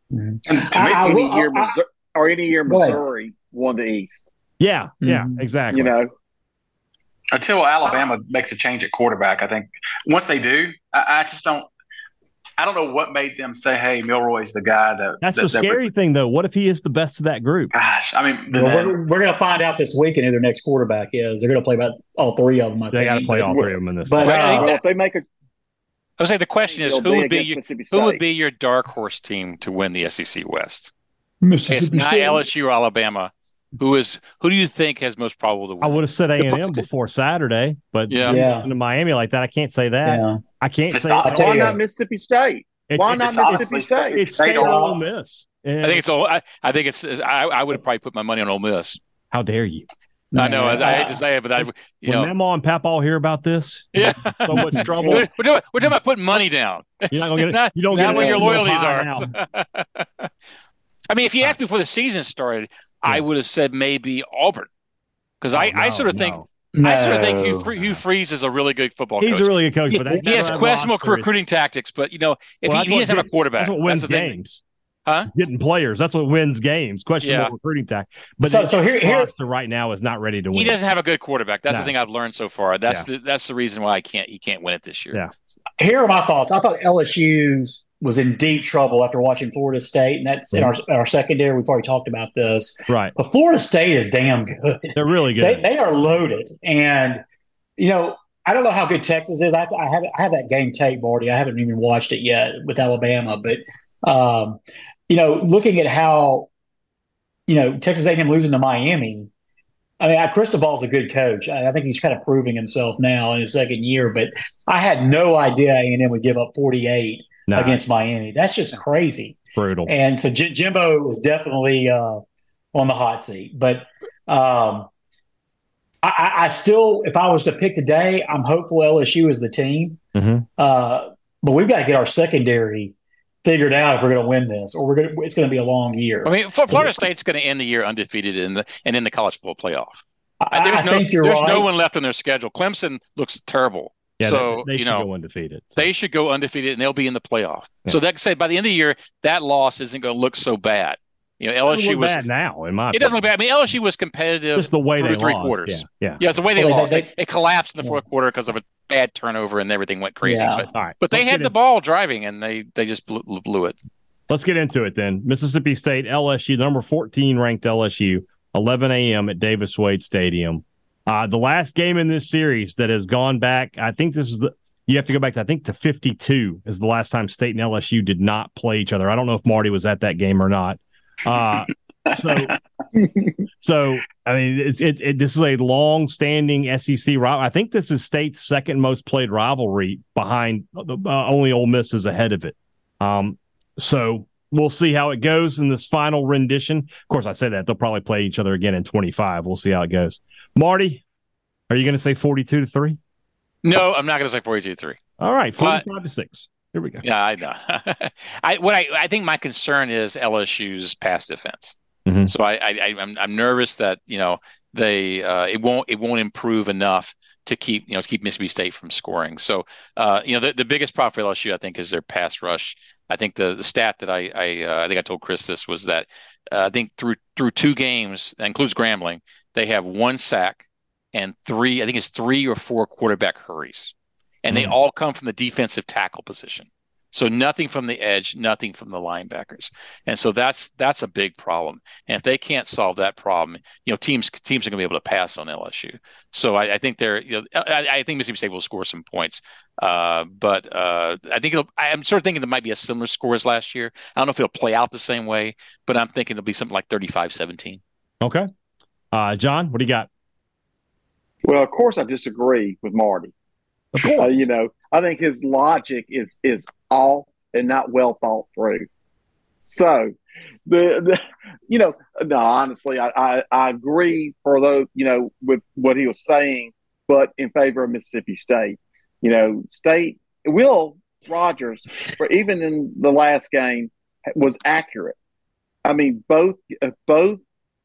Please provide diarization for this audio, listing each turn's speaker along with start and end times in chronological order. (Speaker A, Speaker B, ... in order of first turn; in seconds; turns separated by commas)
Speaker A: 0.1-1.8, Speaker B: 0.5-1.1, Speaker C: 0.9-4.3, Speaker A: 2.7-3.0, Speaker D: 4.6-5.9, Speaker A: 5.0-5.4, Speaker C: 5.7-6.1, Speaker B: 7.3-11.7, Speaker B: 12.6-15.8, Speaker D: 15.2-17.7, Speaker B: 17.7-18.9, Speaker A: 18.5-24.7, Speaker D: 22.9-24.5, Speaker C: 24.2-25.2, Speaker E: 24.2-24.8, Speaker E: 26.2-30.9, Speaker C: 26.6-28.2, Speaker A: 31.4-32.4, Speaker E: 31.7-36.8, Speaker D: 35.8-41.8, Speaker E: 38.1-38.4, Speaker A: 38.2-38.7, Speaker A: 40.0-40.4, Speaker B: 40.9-41.3, Speaker A: 41.2-41.8, Speaker C: 41.3-44.2, Speaker D: 42.9-46.0, Speaker B: 43.1-45.0, Speaker A: 44.5-44.9, Speaker E: 45.8-49.0, Speaker D: 49.3-49.9, Speaker A: 50.3-51.2, Speaker E: 50.4-52.3, Speaker D: 52.0-55.3, Speaker E: 53.9-60.3, Speaker A: 54.8-55.2, Speaker D: 57.1-59.3, Speaker A: 57.9-58.6, Speaker E: 61.1-64.7, Speaker E: 65.4-74.3, Speaker D: 65.5-66.4, Speaker A: 66.7-67.7, Speaker D: 69.2-71.3, Speaker A: 70.0-70.6, Speaker D: 72.7-74.6, Speaker D: 75.3-80.8, Speaker E: 77.2-77.5, Speaker A: 78.4-79.3, Speaker E: 80.5-85.2, Speaker A: 85.8-97.2, Speaker D: 92.9-93.1, Speaker D: 94.9-95.7, Speaker A: 97.8-106.5, Speaker A: 107.5-109.3, Speaker A: 110.0-122.2, Speaker D: 117.5-117.8, Speaker D: 119.5-119.9, Speaker A: 122.7-124.9, Speaker A: 126.0-130.0, Speaker D: 130.1-130.5, Speaker A: 130.6-137.0, Speaker E: 136.2-145.1, Speaker A: 140.4-141.7, Speaker D: 144.2-145.9, Speaker E: 145.8-152.2, Speaker D: 151.6-153.2, Speaker E: 152.9-163.8, Speaker D: 154.6-156.2, Speaker A: 156.6-157.1, Speaker A: 160.2-160.7, Speaker D: 160.7-161.5, Speaker D: 164.3-182.5, Speaker B: 181.6-182.6, Speaker D: 183.6-201.0, Speaker D: 201.7-203.0, Speaker E: 203.6-205.0, Speaker D: 205.2-207.0, Speaker E: 205.6-205.8, Speaker E: 207.0-211.7, Speaker D: 212.1-212.3, Speaker E: 212.3-233.9, Speaker E: 234.4-257.8, Speaker D: 234.5-234.8, Speaker D: 258.2-258.5, Speaker D: 259.1-260.1, Speaker C: 261.4-263.3, Speaker D: 263.9-264.3, Speaker C: 264.0-268.9, Speaker C: 269.6-270.1, Speaker C: 270.7-285.1, Speaker C: 285.8-287.4